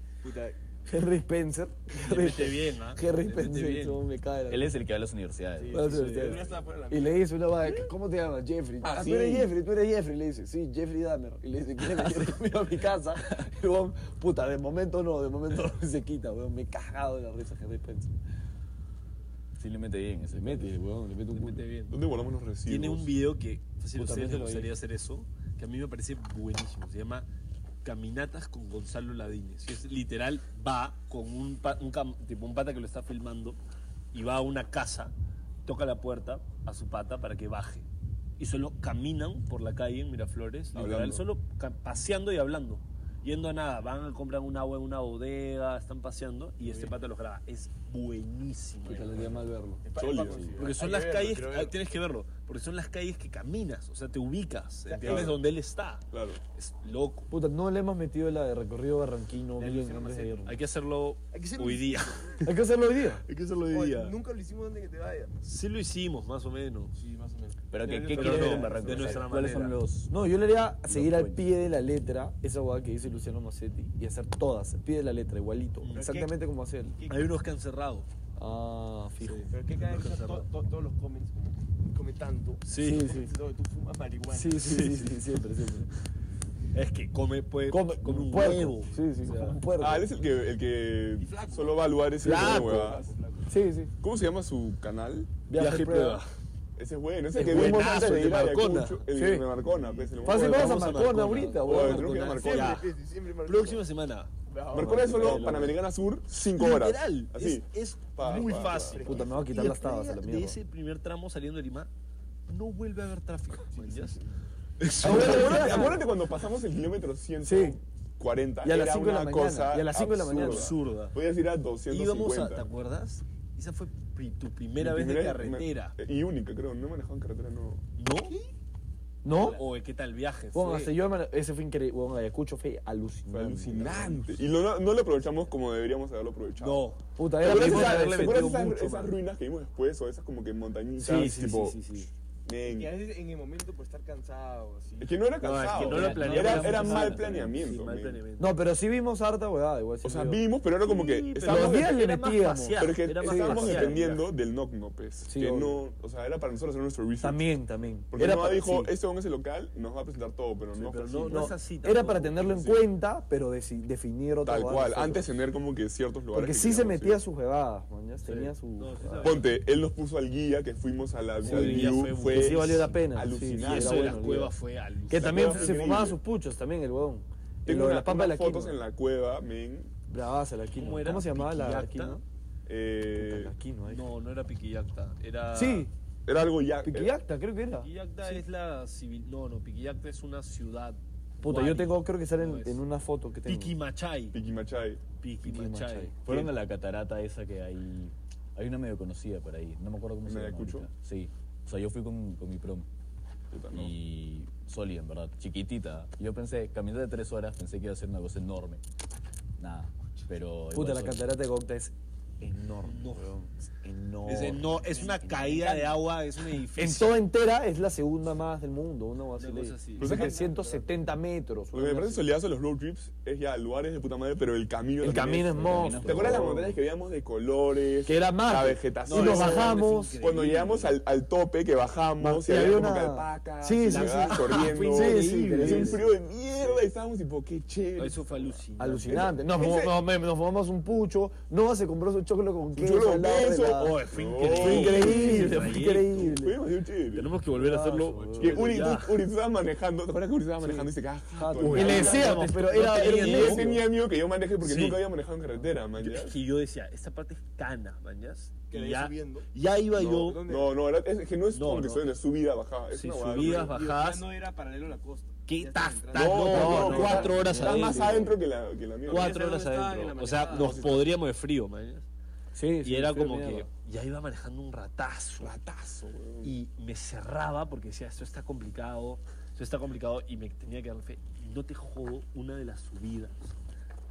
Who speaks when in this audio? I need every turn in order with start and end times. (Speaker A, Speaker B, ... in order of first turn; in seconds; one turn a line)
Speaker A: 0.2-0.6
Speaker B: 0.9-4.7
Speaker C: 1.9-4.0
Speaker D: 4.5-5.9
Speaker A: 5.6-7.3
Speaker B: 5.7-18.1
Speaker C: 5.8-6.5
Speaker E: 8.8-9.5
Speaker D: 19.6-20.7
Speaker B: 20.3-21.7
Speaker C: 21.3-22.0
Speaker E: 21.9-23.1
Speaker C: 22.6-27.3
Speaker B: 23.9-24.7
Speaker C: 27.8-33.6
Speaker C: 34.1-35.1
Speaker C: 35.6-37.9
Speaker C: 38.4-49.4
Speaker E: 40.7-41.2
Speaker A: 46.6-47.0
Speaker B: 48.9-49.8
Speaker A: 49.8-51.8
Speaker E: 50.0-50.6
Speaker C: 50.6-57.3
Speaker A: 54.9-55.4
Speaker E: 55.0-55.4
Speaker E: 56.1-56.4
Speaker B: 57.3-60.6
Speaker A: 59.6-60.5
Speaker C: 60.5-62.5
Speaker A: 61.3-62.4
Speaker B: 62.4-63.2
Speaker C: 63.3-64.2
Speaker A: 63.7-65.3
Speaker C: 65.4-67.0
Speaker A: 67.0-69.4
Speaker D: 67.7-70.1
Speaker C: 68.1-69.8
Speaker B: 70.1-77.0
Speaker D: 70.9-71.5
Speaker C: 75.8-76.1
Speaker A: 75.9-76.3
Speaker A: 77.0-77.3
Speaker C: 77.1-78.1
Speaker B: 78.4-79.5
Speaker C: 79.2-80.5
Speaker A: 79.5-84.8
Speaker C: 82.7-83.1
Speaker B: 82.8-83.3
Speaker B: 84.3-85.9
Speaker C: 84.5-85.2
Speaker C: 86.7-89.6
Speaker B: 87.7-90.1
Speaker A: 88.7-89.2
Speaker E: 89.8-93.1
Speaker A: 91.2-93.5
Speaker C: 92.2-92.9
Speaker B: 93.5-93.9
Speaker E: 94.0-95.3
Speaker B: 95.5-96.2
Speaker C: 95.5-96.3
Speaker E: 96.8-102.8
Speaker B: 97.3-98.5
Speaker C: 97.4-99.1
Speaker B: 99.1-99.5
Speaker A: 99.6-100.3
Speaker C: 100.2-102.9
Speaker B: 100.2-102.1
Speaker A: 102.0-103.9
Speaker C: 103.5-104.3
Speaker A: 104.5-105.4
Speaker E: 104.7-109.2
Speaker B: 104.7-105.8
Speaker C: 106.5-111.9
Speaker A: 108.2-109.7
Speaker B: 109.0-110.6
Speaker C: 112.5-114.2
Speaker A: 113.7-114.3
Speaker C: 114.8-116.0
Speaker B: 115.0-116.0
Speaker E: 115.0-122.7
Speaker B: 117.4-117.8
Speaker B: 118.6-120.8
Speaker C: 120.3-121.2
Speaker C: 121.9-126.0
Speaker E: 124.8-127.8
Speaker C: 128.0-128.3
Speaker A: 128.3-128.5
Speaker B: 129.2-129.6
Speaker A: 129.3-129.7
Speaker C: 129.3-130.9
Speaker B: 130.5-134.4
Speaker E: 133.3-136.9
Speaker C: 136.6-139.2
Speaker B: 137.2-138.5
Speaker E: 137.4-141.8
Speaker C: 141.0-142.1
Speaker E: 142.5-142.9
Speaker A: 142.6-145.8
Speaker E: 145.0-148.2
Speaker C: 145.4-148.6
Speaker D: 145.8-147.7
Speaker B: 148.4-150.5
Speaker E: 150.0-152.0
Speaker C: 150.8-154.3
Speaker B: 151.4-154.1
Speaker E: 152.8-157.4
Speaker B: 155.2-155.8
Speaker B: 157.2-158.9
Speaker E: 158.1-161.6
Speaker C: 160.7-162.8
Speaker B: 161.3-165.3
Speaker E: 164.4-167.2
Speaker B: 166.3-169.4
Speaker C: 168.2-169.6
Speaker E: 169.2-174.3
Speaker C: 171.4-172.9
Speaker B: 171.4-174.6
Speaker C: 173.5-175.8
Speaker B: 175.1-178.8
Speaker E: 175.1-176.2
Speaker E: 177.7-179.9
Speaker B: 180.1-182.2
Speaker C: 180.8-182.2
Speaker E: 182.7-183.5
Speaker B: 183.2-184.1
Speaker C: 183.9-185.9
Speaker B: 185.5-185.9
Speaker E: 186.3-187.1
Speaker B: 186.8-188.4
Speaker C: 187.8-192.8
Speaker B: 191.4-193.8
Speaker C: 193.5-194.4
Speaker E: 194.3-195.0
Speaker C: 195.2-196.2
Speaker B: 195.4-196.1
Speaker D: 196.3-202.9
Speaker E: 196.3-196.6
Speaker E: 200.2-200.9
Speaker E: 203.5-203.9
Speaker D: 203.7-208.8
Speaker D: 209.6-211.3
Speaker B: 210.7-216.0
Speaker C: 212.8-213.3
Speaker C: 214.2-217.2
Speaker A: 214.9-215.2
Speaker B: 216.8-222.3
Speaker C: 219.4-220.3
Speaker E: 220.0-220.4
Speaker A: 220.0-221.0
Speaker E: 221.7-240.0
Speaker B: 225.0-226.8
Speaker D: 225.6-226.5
Speaker B: 228.1-230.2
Speaker C: 229.1-231.0
Speaker B: 232.2-236.1
Speaker C: 233.9-236.1
Speaker C: 238.0-239.3
Speaker B: 238.8-244.0
Speaker E: 242.8-247.3
Speaker C: 243.7-246.3
Speaker B: 244.5-246.6
Speaker C: 247.1-249.3
Speaker B: 247.5-248.9
Speaker A: 248.2-248.5
Speaker E: 248.4-256.3
Speaker B: 250.6-253.8
Speaker C: 251.6-253.8
Speaker A: 251.9-252.3
Speaker C: 254.6-255.1
Speaker C: 256.0-260.4
Speaker A: 258.7-260.8
Speaker E: 260.4-263.8
Speaker C: 261.5-262.1
Speaker C: 262.9-264.3
Speaker A: 263.3-267.5
Speaker C: 265.5-268.4
Speaker E: 266.1-269.4
Speaker B: 266.4-268.3
Speaker A: 269.1-270.9
Speaker C: 269.1-272.1
Speaker E: 270.5-271.1
Speaker B: 272.5-273.7
Speaker C: 272.8-275.6
Speaker E: 275.4-276.6
Speaker C: 276.4-283.6